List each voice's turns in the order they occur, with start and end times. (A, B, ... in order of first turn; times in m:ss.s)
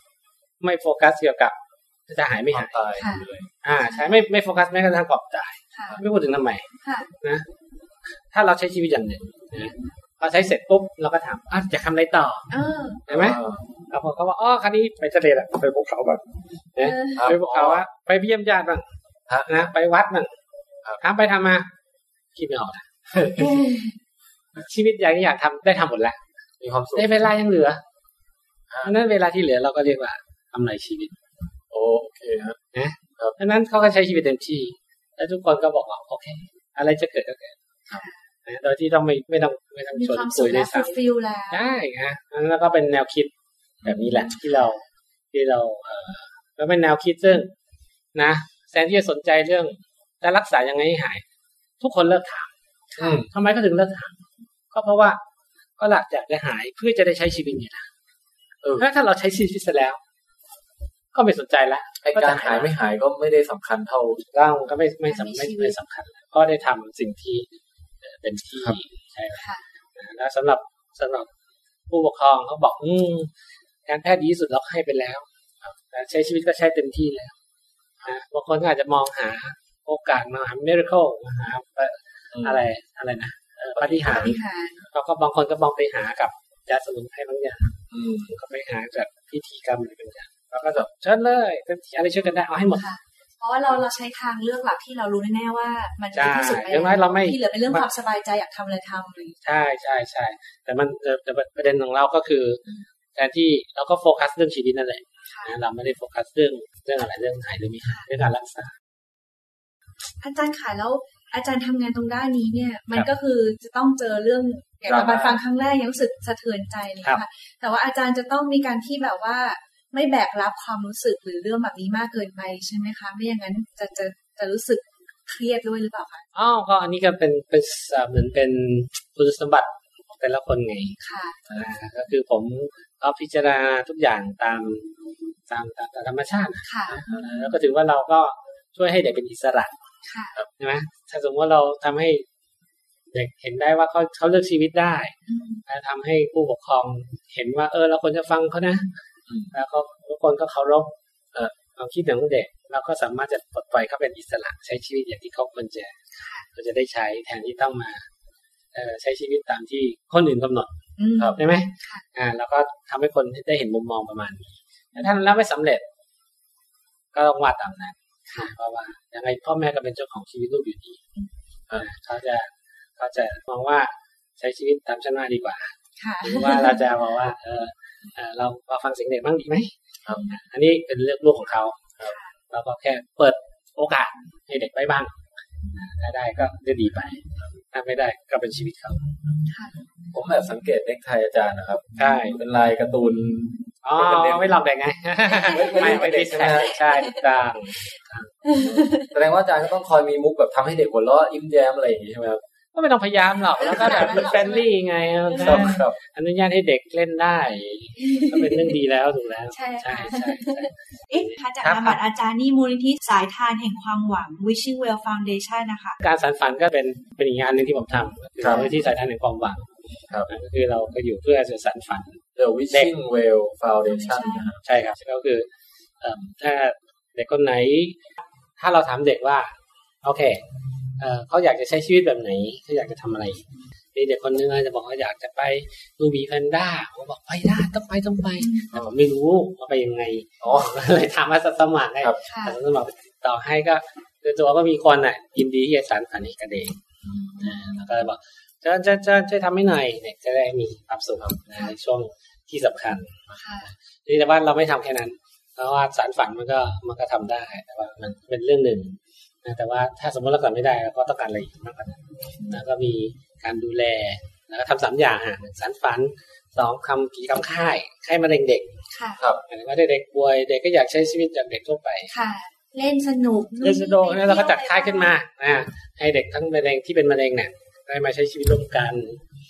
0:00.6-0:01.6 A
0:02.1-0:02.8 A
0:02.5-0:03.5 B
0:02.9-0:03.3 C
0:03.6-0:06.7 A
0:03.9-0:04.2 C
0:05.7-0:06.0 C
0:06.8-0:07.1 C
0:08.3-0:12.5 A
0:12.5-0:13.0 C
0:13.1-0:16.2 A
0:13.1-0:13.6 B
0:16.8-0:18.8 A
0:16.8-0:17.2 C
0:17.2-0:17.8 B
0:19.3-0:19.7 B
0:19.4-0:20.3 A
0:21.0-0:21.7 A
0:22.3-0:22.8 A
0:23.2-0:23.9 C
0:24.6-0:26.2 A
0:26.6-0:27.2 B
0:26.9-0:27.8 A
0:28.8-0:31.2 A
0:31.7-0:32.6 B
0:32.7-0:37.5 A
0:37.9-0:38.2 C
0:38.4-0:43.3 A
0:39.9-0:41.7 C
0:43.8-0:44.2 B
0:43.8-0:44.8 A
0:44.3-0:44.8 C
0:45.3-0:47.5 A
0:48.1-0:51.2 A
0:51.8-0:52.5 A
0:53.0-0:53.3 B
0:53.3-0:54.2 A
0:54.7-0:55.2 A
0:55.8-0:57.9 A
0:58.8-1:00.0 A
1:01.1-1:02.7 A
1:02.0-1:04.2 B
1:04.3-1:07.5 A
1:05.1-1:05.8 C
1:08.0-1:11.3 A
1:09.3-1:09.6 C
1:11.9-1:13.3 A
1:13.8-1:15.2 A
1:15.9-1:17.3 A
1:18.0-1:24.4 A
1:23.8-1:24.3 B
1:24.0-1:24.8 C
1:24.9-1:32.8 A
1:27.9-1:28.3 B
1:32.7-1:39.4 C
1:36.1-1:37.8 A
1:39.4-1:42.6 A
1:43.2-1:48.7 A
1:45.3-1:45.6 C
1:50.2-2:06.2 C
1:54.9-1:55.4 B
2:06.3-2:11.0 A
2:11.0-2:11.4 C
2:11.5-2:14.9 A
2:15.5-2:19.7 A
2:16.6-2:17.5 C
2:20.0-2:20.4 C
2:20.6-2:22.2 A
2:23.1-2:25.1 A
2:25.3-2:25.6 C
2:25.7-2:28.9 A
2:29.5-2:30.9 A
2:31.6-2:38.0 A
2:36.2-2:36.4 C
2:38.7-2:40.7 A
2:41.0-2:42.0 C
2:41.4-2:45.8 A
2:47.1-2:51.0 A
2:51.8-2:55.7 A
2:56.0-2:56.9 C
2:56.2-2:59.7 A
3:00.3-3:01.9 A
3:02.0-3:02.3 C
3:02.5-3:05.2 A
3:05.7-3:09.0 A
3:09.5-3:09.8 C
3:10.1-3:14.6 B
3:12.0-3:12.4 A
3:12.0-3:12.3 C
3:13.8-3:18.3 A
3:15.3-3:16.0 C
3:15.5-3:16.8 B
3:16.7-3:17.2 C
3:18.4-3:19.1 C
3:18.5-3:22.4 B
3:22.7-3:32.0 A
3:23.6-3:24.7 C
3:23.7-3:24.2 B
3:25.3-3:25.8 C
3:25.4-3:25.9 B
3:28.0-3:28.5 C
3:29.5-3:36.0 C
3:36.0-3:39.7 A
3:38.4-3:38.6 B
3:38.5-3:38.9 C
3:40.3-3:42.9 A
3:42.3-3:44.6 B
3:43.9-3:44.5 C
3:44.6-3:45.5 A
3:46.0-3:48.0 A
3:48.6-3:50.4 A
3:51.0-4:06.8 A
3:58.4-3:58.7 C
4:00.4-4:00.9 B
4:02.2-4:02.6 C
4:07.1-4:07.7 C
4:07.4-4:13.1 A
4:13.4-4:13.7 C
4:14.0-4:28.7 A
4:28.9-4:29.2 C
4:29.5-4:32.1 A
4:32.1-4:35.1 C
4:33.6-4:39.2 A